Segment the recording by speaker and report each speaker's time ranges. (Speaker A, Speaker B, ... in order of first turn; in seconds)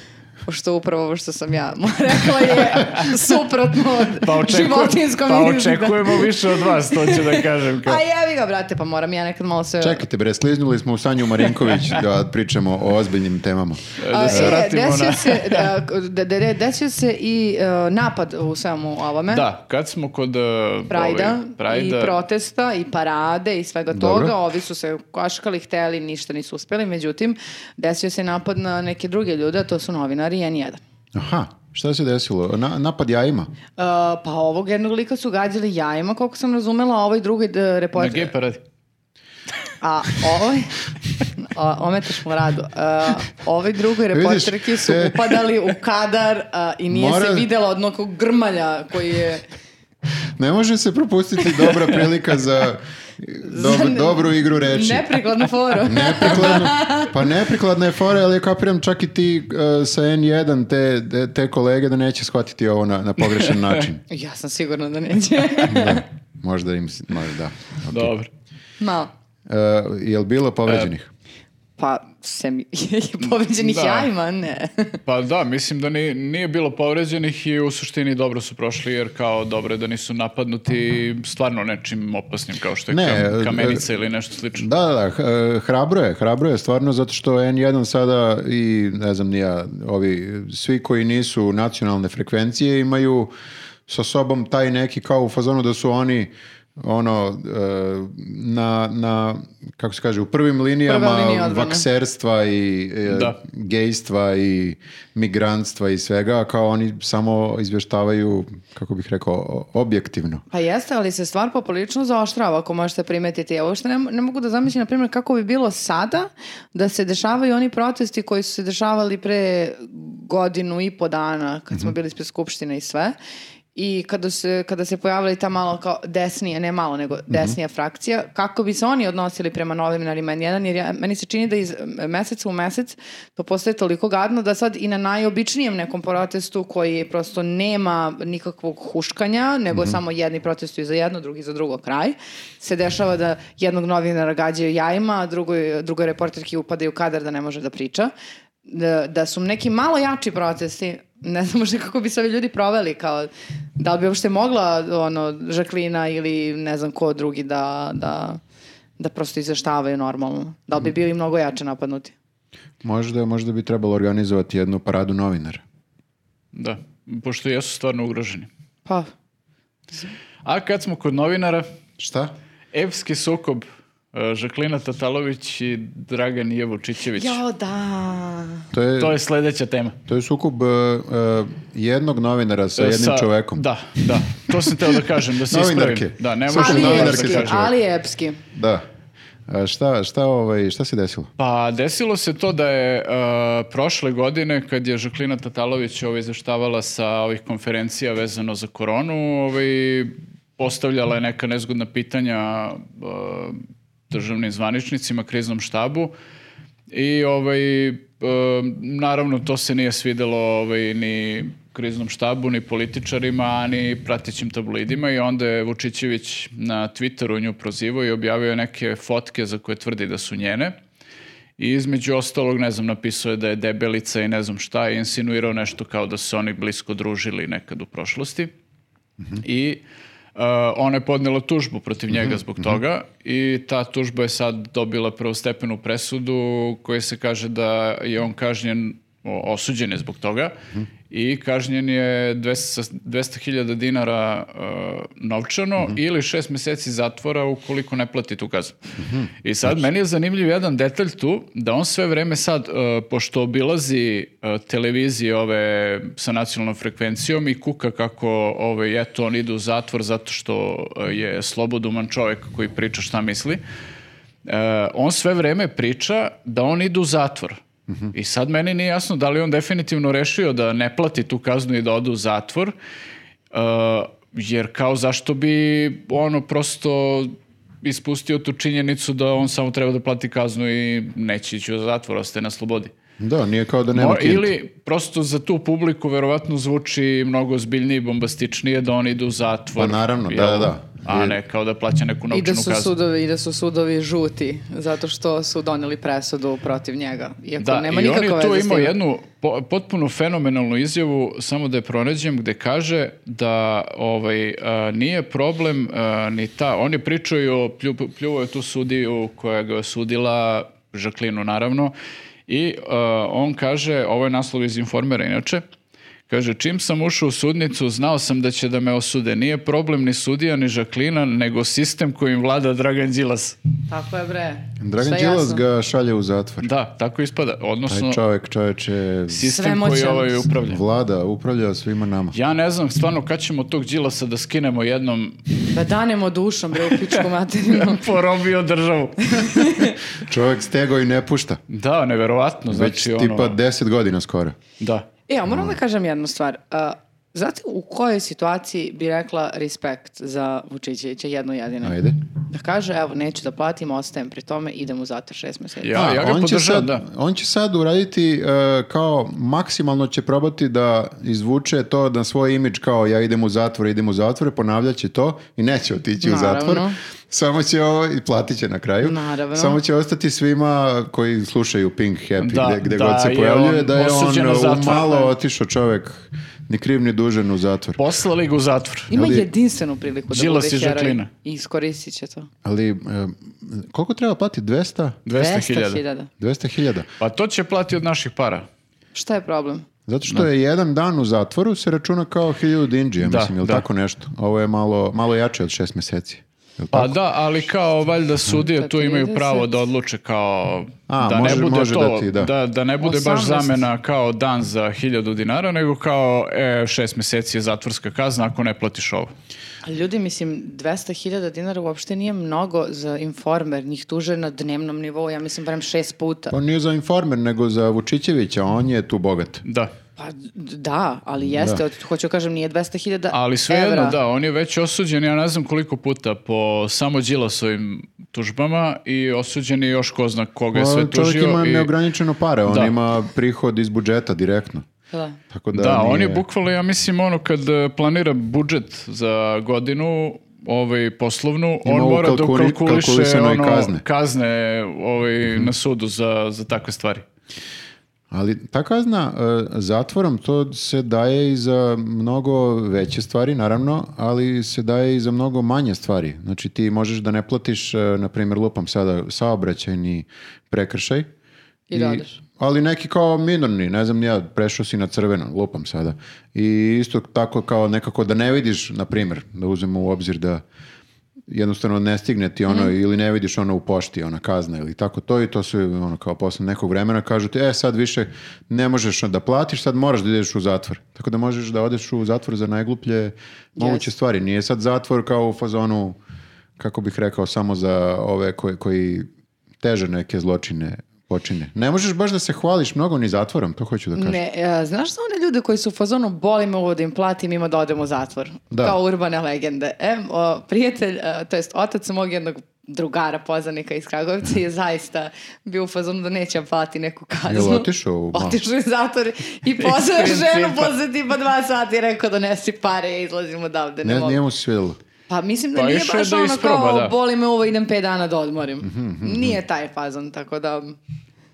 Speaker A: 0.5-10.0, 14.1-19.5, 20.9-30.8, 33.8-38.3, 39.8-40.8, 41.4-49.5, 53.4-57.1, 64.1-66.0, 68.8-69.1, 71.8-75.0, 100.9-101.8, 110.5-123.2, 123.8-148.1, 148.7-158.4, 159.0-162.1, 177.1-178.7, 186.5-188.4, 292.3-298.9, 323.9-325.6, 329.4-330.5, 335.7-338.1, 339.3-340.0, 345.3-352.0, 352.5-356.1, 366.2-367.0, 369.0-369.8, 379.1-382.5, 385.4-386.3, 389.1-389.9, 398.5-399.8, 403.0-403.9, 409.9-416.6, 420.2-424.2, 435.1-435.4, 461.9-462.4, 483.8-484.1, 494.2-514.4, 515.3-521.0
Speaker B: 4.2-8.0, 14.0-15.7, 19.3-22.2, 38.0-38.6, 63.4-63.8, 67.9-68.3, 73.6-74.1, 75.1-84.7, 103.1-103.3, 166.5-168.5, 170.4-171.7, 172.7-177.4, 179.0-180.0, 182.8-187.7, 191.4-206.1, 206.9-220.8, 221.6-228.5, 229.4-229.8, 230.4-240.6, 241.1-248.9, 249.4-263.6, 264.5-267.6, 268.1-272.8, 273.5-282.9, 283.9-292.9, 297.6-311.9, 312.5-315.6, 316.3-323.6, 326.6-328.2, 329.3-330.8, 332.3-335.4, 336.9-339.7, 341.7-343.6, 344.8-345.1, 355.8-357.0, 372.4-375.3, 378.0-379.1, 380.3-381.3, 385.3-386.0, 387.2-388.7, 393.2-393.8, 396.9-409.3, 419.6-419.9, 423.3-431.9, 432.7-432.9, 435.7-447.2, 509.8-510.9, 515.8-517.1
Speaker C: 9.8-14.6, 23.9-24.4, 31.1-33.5, 44.1-45.4, 46.9-47.5, 50.4-55.1, 55.9-64.0, 65.7-68.1, 69.5-71.1, 82.9-83.8, 84.5-93.3, 93.9-110.4, 127.3-127.5, 162.8-165.6, 172.0-172.3, 178.7-179.2, 180.1-183.7, 185.5-187.7, 188.5-188.8, 189.5-191.3, 249.0-249.8, 283.2-284.5, 289.8-291.4, 324.8-326.7, 327.9-329.5, 330.7-332.4, 340.2-341.6, 342.7-344.6, 345.5-345.8, 351.8-352.2, 355.9-378.0, 379.1-379.5, 382.6-385.2, 386.4-387.1, 390.1-397.2, 401.1-402.5, 416.5-419.6, 421.5-421.8, 430.7-434.9, 435.5-436.4, 441.9-444.0, 448.3-461.3, 461.9-470.6, 471.5-486.2, 486.8-489.3, 489.8-494.4, 507.5-508.6, 514.0-515.0, 518.8-519.6